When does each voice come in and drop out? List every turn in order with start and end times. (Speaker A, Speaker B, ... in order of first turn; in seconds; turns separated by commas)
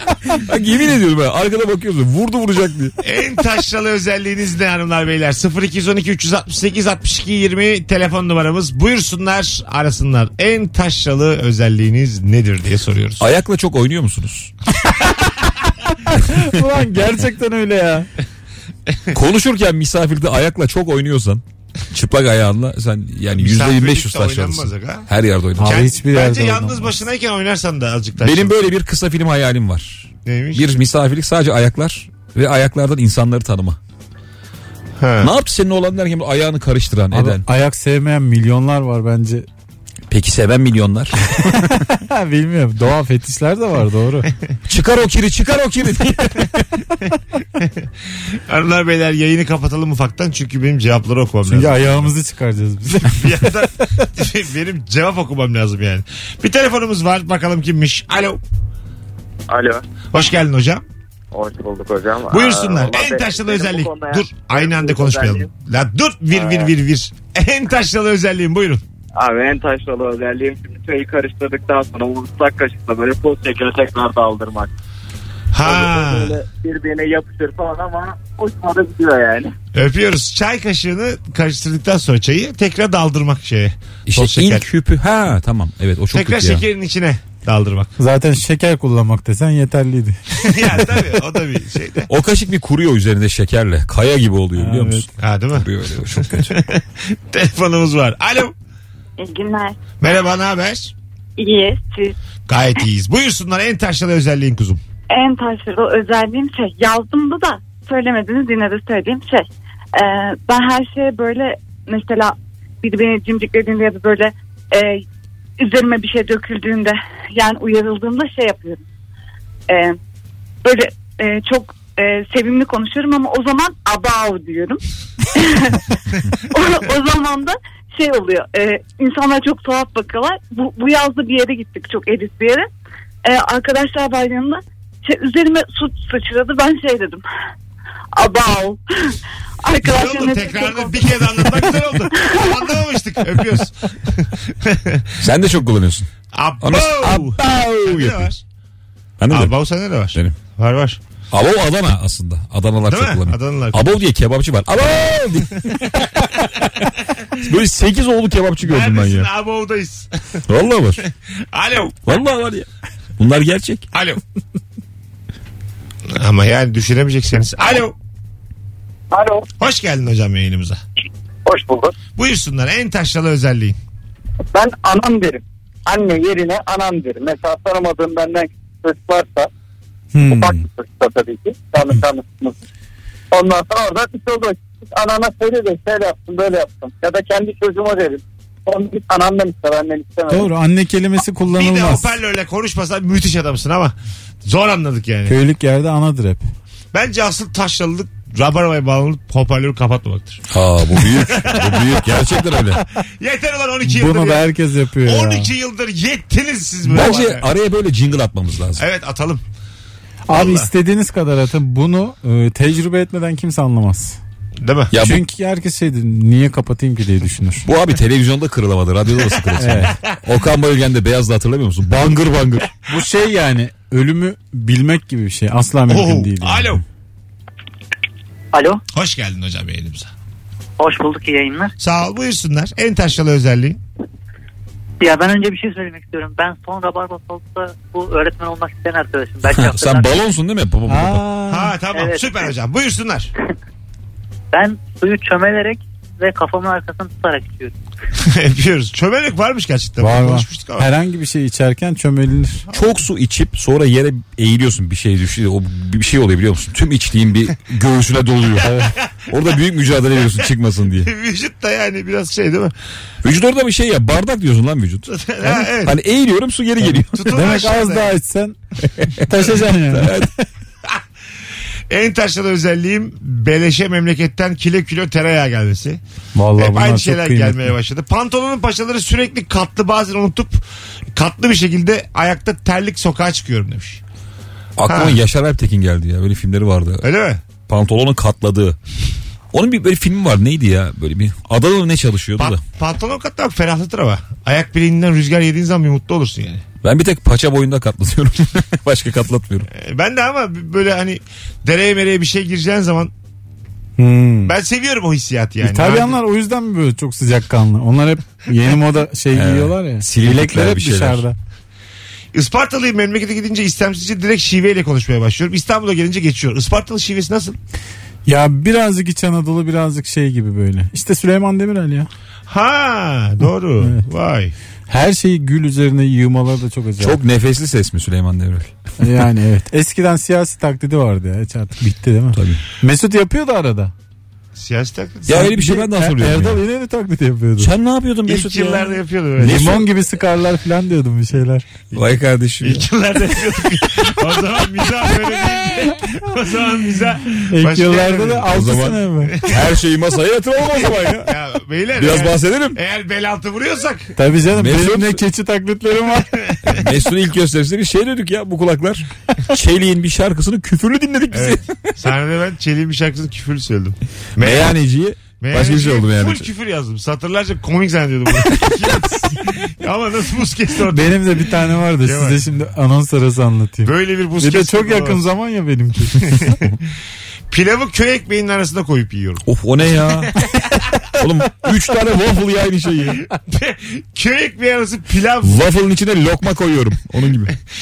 Speaker A: 0.2-3.0, Speaker B: 3.0-13.2, Speaker A: 13.2-14.5, Speaker C: 16.1-18.1, Speaker A: 19.1-25.8, Speaker B: 23.4-25.1, Speaker C: 25.6-26.9, Speaker B: 25.6-28.6, Speaker A: 28.2-33.8, Speaker B: 30.2-30.7, Speaker B: 35.0-35.3, Speaker A: 35.2-37.4, Speaker C: 37.1-39.5, Speaker A: 40.1-41.8, Speaker C: 41.5-44.3, Speaker A: 44.7-46.6, Speaker B: 48.5-52.1, Speaker C: 51.5-53.5, Speaker B: 53.1-58.4, Speaker D: 59.5-59.8, Speaker B: 60.1-60.8, Speaker D: 61.3-65.5, Speaker B: 62.3-68.8, Speaker D: 66.3-66.7, Speaker D: 69.2-74.7, Speaker B: 75.5-76.3, Speaker D: 75.6-79.5, Speaker B: 79.7-84.6, Speaker A: 84.1-86.6, Speaker B: 86.1-87.9, Speaker C: 88.0-90.2, Speaker B: 90.4-92.1, Speaker A: 92.1-96.5, Speaker C: 94.5-95.0, Speaker B: 95.2-98.5, Speaker E: 99.2-99.8, Speaker B: 100.0-100.9, Speaker E: 101.4-102.1, Speaker B: 102.5-104.8, Speaker E: 105.1-115.0, Speaker E: 115.6-118.8, Speaker E: 119.7-120.0, Speaker E: 120.6-124.8, Speaker E: 125.3-132.7, Speaker E: 133.2-137.2, Speaker E: 138.1-142.7, Speaker B: 139.8-145.1, Speaker A: 145.2-146.1, Speaker B: 146.3-148.4, Speaker A: 146.6-148.3, Speaker A: 149.2-149.5, Speaker B: 149.3-151.0, Speaker A: 151.3-159.3, Speaker B: 152.9-153.8, Speaker B: 158.6-160.4, Speaker A: 160.5-161.0, Speaker B: 161.0-162.0, Speaker A: 162.1-163.9, Speaker B: 163.9-164.2, Speaker B: 166.1-167.9, Speaker F: 169.1-169.5, Speaker B: 169.6-170.8, Speaker F: 171.4-171.9, Speaker B: 172.2-173.8, Speaker F: 174.5-179.5, Speaker C: 180.1-180.6, Speaker F: 180.2-182.6, Speaker F: 183.3-190.5, Speaker C: 190.3-192.1, Speaker B: 191.5-193.9, Speaker B: 194.4-195.3, Speaker C: 195.3-196.4, Speaker B: 196.9-200.4, Speaker A: 200.5-202.8, Speaker B: 201.0-202.2, Speaker B: 203.0-204.5, Speaker C: 203.8-205.5, Speaker B: 205.0-207.4, Speaker A: 206.9-208.8, Speaker B: 208.8-209.4, Speaker C: 210.3-214.2, Speaker B: 210.3-210.7, Speaker B: 214.6-214.9, Speaker A: 214.9-215.2, Speaker C: 214.9-217.6, Speaker A: 217.7-222.7, Speaker C: 219.6-219.9, Speaker C: 222.9-226.8, Speaker B: 225.9-226.8, Speaker G: 228.5-228.8, Speaker B: 228.9-230.1, Speaker G: 230.8-231.7, Speaker B: 231.8-233.8, Speaker G: 235.0-240.2, Speaker A: 239.5-241.2, Speaker C: 240.9-241.7, Speaker B: 241.5-243.3, Speaker G: 241.9-242.5, Speaker G: 244.5-247.7, Speaker B: 248.2-250.9, Speaker C: 250.0-252.6, Speaker A: 252.7-261.1, Speaker C: 258.6-258.9, Speaker B: 261.0-262.7, Speaker A: 263.2-267.3, Speaker B: 265.1-266.0, Speaker B: 266.9-268.1, Speaker C: 267.3-268.6, Speaker A: 269.0-270.3, Speaker C: 269.2-270.1, Speaker B: 271.9-276.0, Speaker C: 276.3-277.7, Speaker B: 276.6-280.6, Speaker B: 281.1-284.0, Speaker A: 284.8-287.1, Speaker B: 284.9-285.2, Speaker B: 287.0-287.4, Speaker A: 287.7-288.8, Speaker A: 289.5-292.6, Speaker B: 292.4-296.6, Speaker A: 296.8-299.7, Speaker B: 299.7-303.1, Speaker C: 304.0-304.5, Speaker B: 304.4-306.1, Speaker C: 305.6-311.4, Speaker A: 309.3-311.2, Speaker B: 312.3-317.6, Speaker C: 318.2-322.1, Speaker B: 322.5-324.5, Speaker C: 324.9-327.2, Speaker A: 327.0-328.7, Speaker C: 329.0-333.9, Speaker A: 332.3-332.6, Speaker B: 334.6-335.4, Speaker A: 335.3-336.6, Speaker C: 335.3-337.7, Speaker A: 337.6-339.8, Speaker B: 338.2-339.8, Speaker C: 339.4-341.7, Speaker A: 341.9-342.9, Speaker B: 342.6-349.7, Speaker C: 347.5-349.4, Speaker A: 348.5-351.3, Speaker B: 351.2-354.1, Speaker A: 351.9-352.8, Speaker C: 354.1-356.4, Speaker A: 354.5-355.2, Speaker B: 356.5-356.8, Speaker A: 356.7-361.7, Speaker B: 361.3-364.7, Speaker A: 364.4-366.5, Speaker B: 365.4-371.3, Speaker C: 370.9-376.4, Speaker B: 372.0-372.4, Speaker B: 373.8-375.2, Speaker B: 376.2-376.6, Speaker B: 377.5-379.4, Speaker A: 379.4-380.3, Speaker B: 380.0-380.8, Speaker A: 381.1-383.2, Speaker B: 383.4-385.6, Speaker A: 385.4-387.5